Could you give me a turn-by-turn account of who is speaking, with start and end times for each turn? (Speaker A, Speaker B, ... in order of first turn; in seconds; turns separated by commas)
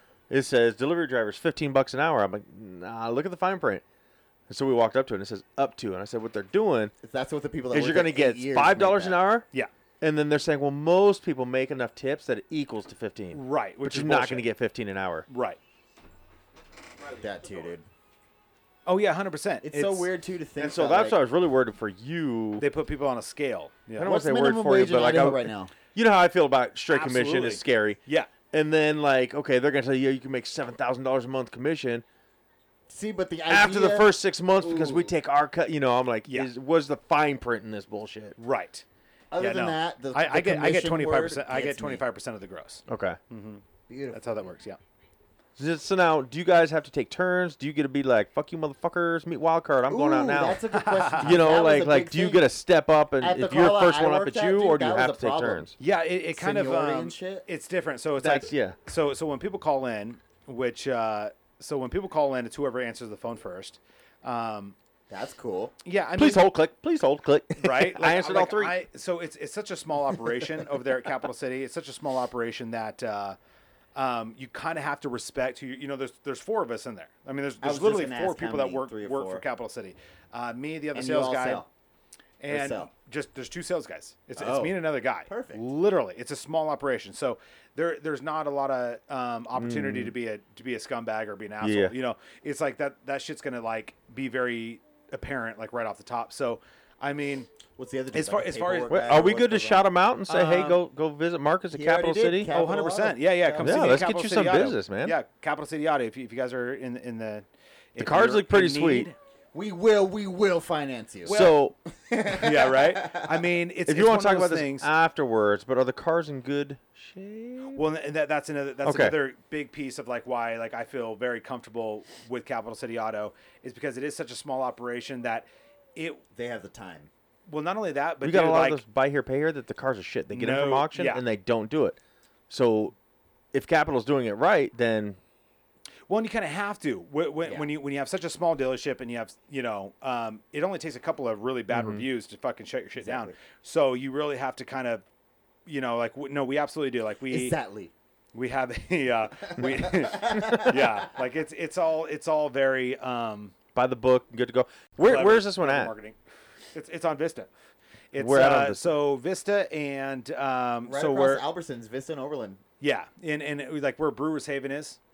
Speaker A: 0.3-3.8, Speaker A: 4.5-6.9, Speaker B: 7.0-9.2, Speaker A: 7.7-9.5, Speaker A: 10.0-15.3, Speaker C: 13.3-14.5, Speaker C: 15.3-15.6, Speaker B: 17.2-17.9, Speaker C: 18.9-20.1, Speaker B: 19.6-21.2, Speaker A: 20.6-22.7, Speaker C: 22.6-24.1, Speaker A: 24.0-32.0, Speaker B: 24.0-25.7, Speaker C: 26.9-28.3, Speaker B: 32.9-35.1, Speaker A: 33.5-38.4, Speaker C: 38.4-38.9, Speaker B: 39.3-42.0, Speaker C: 39.4-44.8, Speaker A: 42.9-43.2, Speaker B: 43.9-44.5, Speaker A: 45.6-50.6, Speaker B: 49.9-52.5, Speaker C: 50.7-51.3, Speaker A: 51.2-55.8, Speaker B: 53.2-55.7, Speaker C: 55.8-64.8, Speaker B: 56.3-57.5, Speaker A: 58.2-58.8, Speaker B: 65.1-65.8, Speaker C: 65.8-66.5, Speaker A: 66.2-68.8, Speaker C: 67.6-73.4, Speaker C: 74.0-81.6, Speaker B: 77.6-79.5, Speaker B: 80.9-81.7, Speaker C: 82.4-97.5, Speaker B: 82.5-82.9, Speaker B: 84.4-85.6, Speaker A: 89.5-90.1, Speaker A: 91.6-91.9, Speaker B: 97.8-99.9, Speaker C: 98.1-99.3, Speaker A: 98.9-102.5, Speaker C: 100.3-100.8, Speaker B: 101.7-104.1, Speaker C: 102.5-109.2, Speaker A: 103.6-105.2, Speaker A: 108.0-109.1, Speaker B: 109.5-113.5, Speaker C: 111.2-111.6, Speaker A: 111.3-111.7, Speaker C: 112.3-114.9, Speaker A: 113.9-117.8, Speaker C: 117.7-126.2, Speaker A: 118.8-119.2, Speaker B: 126.3-127.1, Speaker C: 127.5-128.8, Speaker A: 128.2-132.0, Speaker C: 130.3-131.2, Speaker A: 132.5-132.9, Speaker A: 133.5-135.2, Speaker C: 136.1-145.0, Speaker B: 137.4-137.7, Speaker A: 141.7-142.0, Speaker B: 143.0-143.4, Speaker C: 145.7-147.6, Speaker B: 147.3-147.9, Speaker C: 148.3-153.5, Speaker B: 149.6-150.9, Speaker A: 153.8-155.9, Speaker C: 155.0-156.2, Speaker C: 156.7-157.5, Speaker C: 158.1-161.4, Speaker A: 158.2-159.0, Speaker B: 160.9-162.6, Speaker C: 162.8-165.0